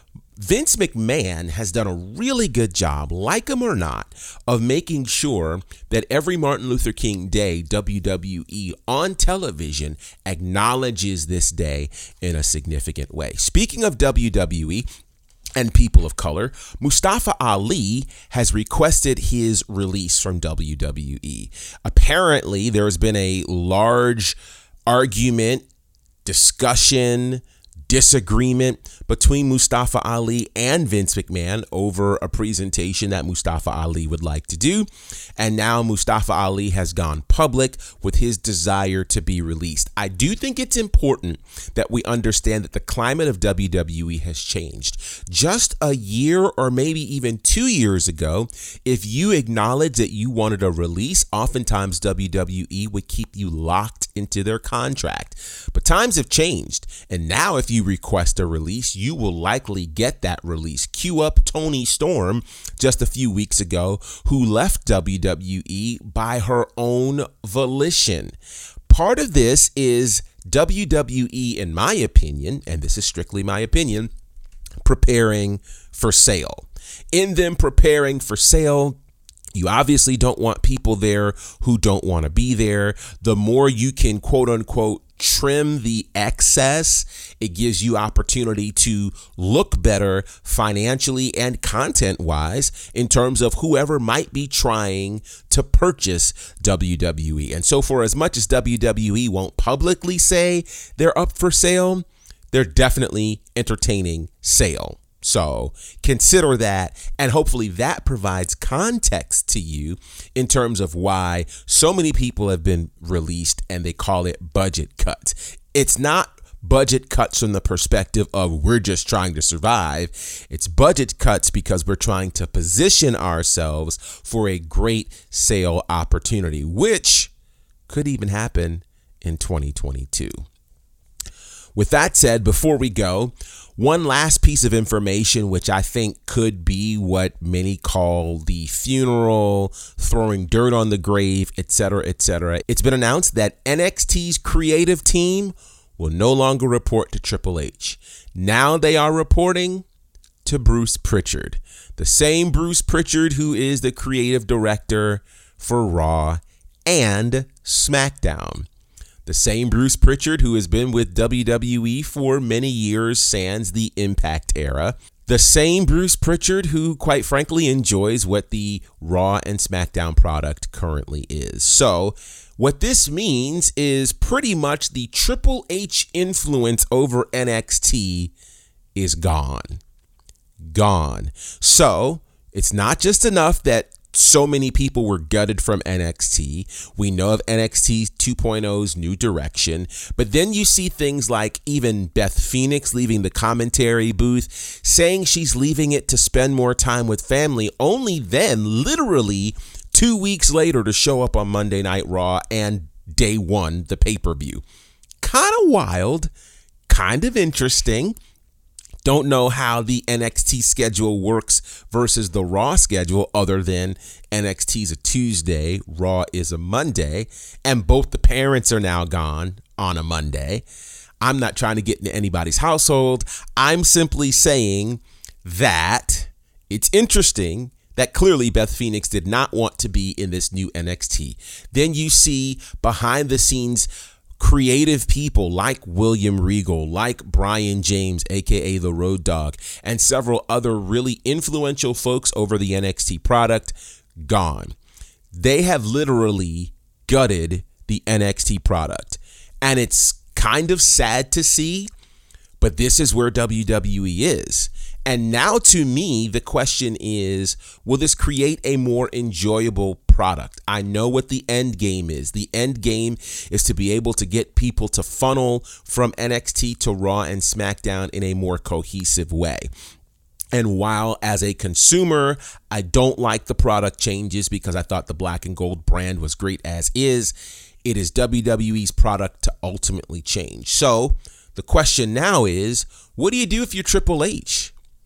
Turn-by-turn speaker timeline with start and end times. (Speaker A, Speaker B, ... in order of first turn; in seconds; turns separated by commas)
Speaker A: 0.4-14.8, Speaker A: 15.6-24.4, Speaker A: 24.9-25.6, Speaker A: 26.2-68.3, Speaker A: 68.9-74.1, Speaker A: 74.8-79.0, Speaker A: 79.5-127.3, Speaker A: 127.9-130.4, Speaker A: 131.8-149.8, Speaker A: 150.4-158.7, Speaker A: 159.2-178.3, Speaker A: 178.9-179.8, Speaker A: 180.7-204.6, Speaker A: 205.2-206.3, Speaker A: 206.9-208.1, Speaker A: 209.0-220.6, Speaker A: 221.2-233.9, Speaker A: 234.4-244.7, Speaker A: 245.3-251.9, Speaker A: 252.6-269.7, Speaker A: 270.5-284.7